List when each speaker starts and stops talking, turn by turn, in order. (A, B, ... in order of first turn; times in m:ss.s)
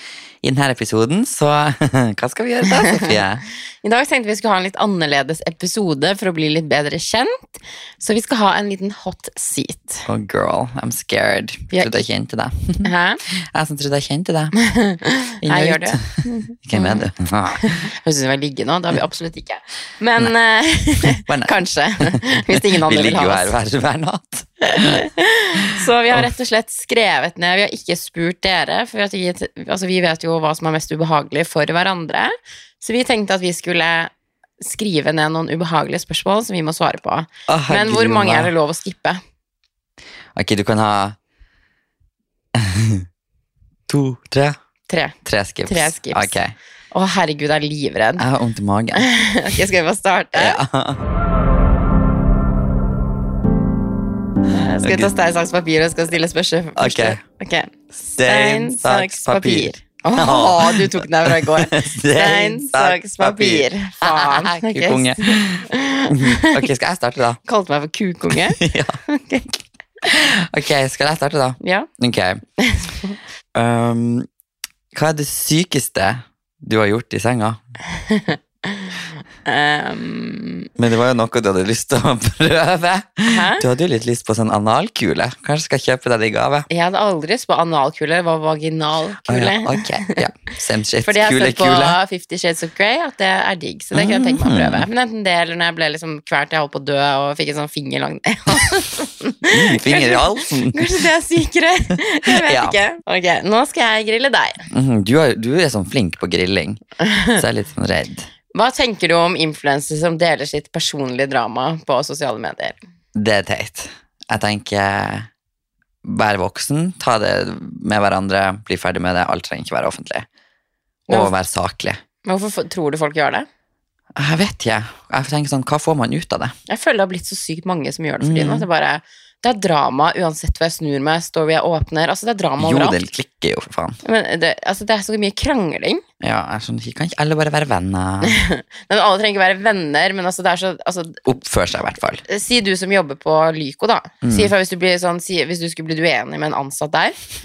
0:00.4-0:03.4 A
0:02.8-0:03.2 B
0:03.8-0:10.1 B
0:10.1-0:14.5 A
0:11.7-0:12.1 B
0:12.8-0:13.2 B
0:14.6-0:23.5 B
0:15.4-0:17.9 A
0:21.0-0:25.0 A
0:24.7-0:39.2 B
0:37.5-0:38.5 A
0:40.3-0:41.2 A
0:42.5-0:43.1 A
0:43.9-0:44.6 A
0:44.9-0:46.4 B
0:45.2-0:46.6 A
0:46.9-0:48.2 B
0:48.2-0:49.1 A
0:49.0-0:50.6 B
0:50.4-0:51.0 A
0:54.5-1:06.7 B
0:54.8-0:55.1 A
0:56.8-0:57.2 A
0:58.2-1:07.4 A
1:07.4-1:09.5 B
1:08.3-1:09.0 A
1:10.0-1:12.4 A
1:11.6-1:11.9 B
1:12.6-1:13.2 B
1:13.6-1:14.3 A
1:14.9-1:17.6 A
1:18.0-1:20.7 B
1:20.8-1:26.7 A
1:23.3-1:23.6 B
1:26.7-1:30.2 B
1:29.3-1:32.0 A
1:31.0-1:44.7 B
1:33.9-1:34.9 A
1:39.5-1:41.0 A
1:42.3-1:42.8 A
1:44.7-1:46.8 A
1:47.0-1:47.4 B
1:47.4-1:48.3 A
1:48.5-1:52.8 B
1:53.2-1:55.3 A
1:56.0-2:00.3 A
2:01.1-2:01.4 B
2:01.1-2:02.0 A
2:02.2-2:03.5 B
2:04.2-2:06.6 A
2:06.7-2:13.0 B
2:08.2-2:08.7 A
2:12.6-2:14.0 A
2:14.0-2:16.0 B
2:16.2-2:18.4 A
2:18.2-2:21.2 B
2:21.2-2:22.2 A
2:22.2-2:27.2 B
2:24.2-2:24.5 A